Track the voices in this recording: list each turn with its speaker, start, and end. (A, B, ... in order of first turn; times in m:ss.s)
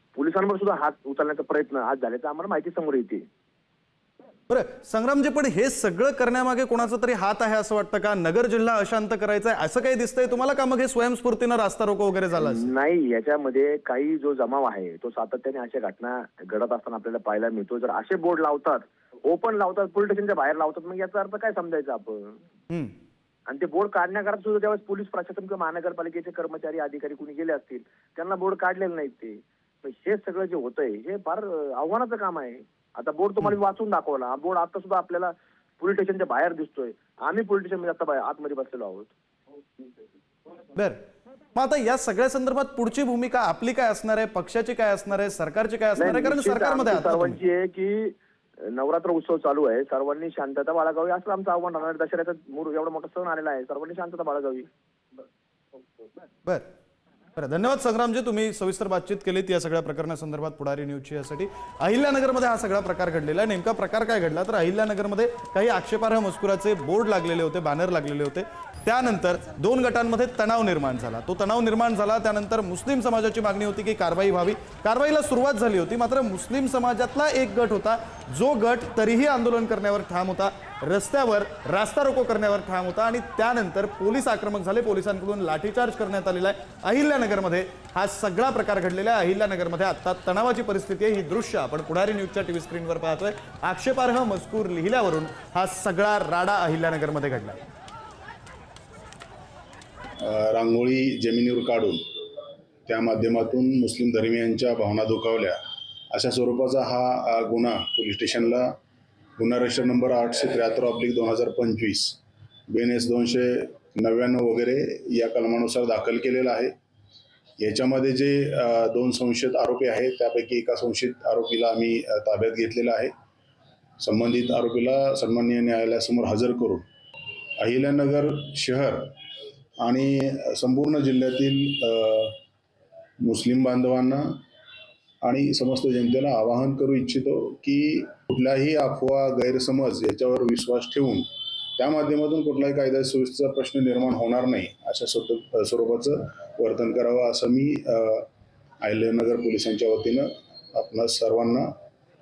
0:00.1-0:03.3 A
0:04.5-0:12.7 B
0:12.3-0:22.4 A
0:23.5-0:39.1 A
0:41.5-0:47.4 B
0:46.0-0:54.7 A
0:57.4-1:37.6 B
1:40.2-1:42.2 C
1:42.8-1:45.6 C
1:46.1-1:48.8 C
1:49.4-1:52.2 C
1:52.7-1:56.7 C
1:57.6-2:03.1 C
2:04.0-2:06.8 C
2:07.6-2:09.2 C
2:09.8-2:12.4 C
2:13.2-2:14.4 C
2:15.2-2:28.3 C
2:28.8-2:31.7 C